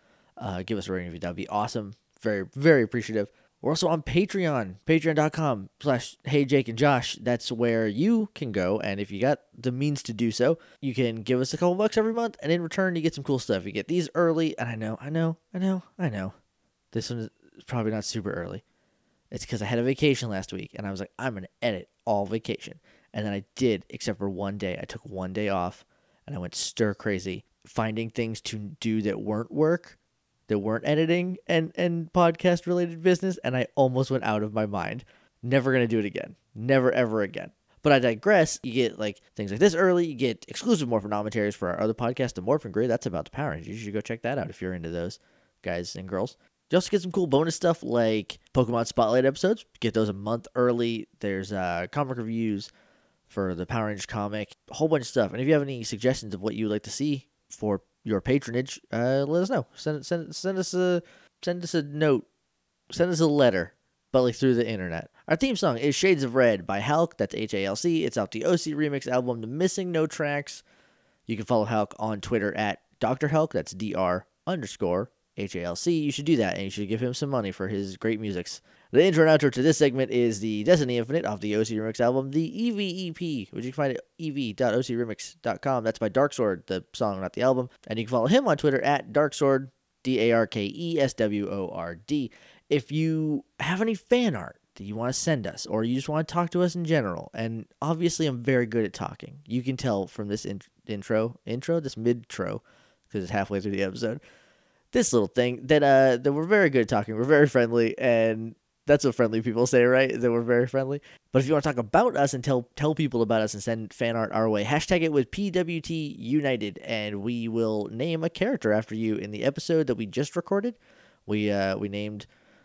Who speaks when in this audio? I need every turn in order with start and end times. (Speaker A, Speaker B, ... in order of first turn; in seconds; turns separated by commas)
Speaker A: 0.4-16.3, Speaker A: 16.9-18.6, Speaker A: 19.3-29.9, Speaker A: 30.5-52.7, Speaker A: 53.3-62.3, Speaker A: 62.9-70.6, Speaker A: 71.3-104.2, Speaker A: 104.9-122.3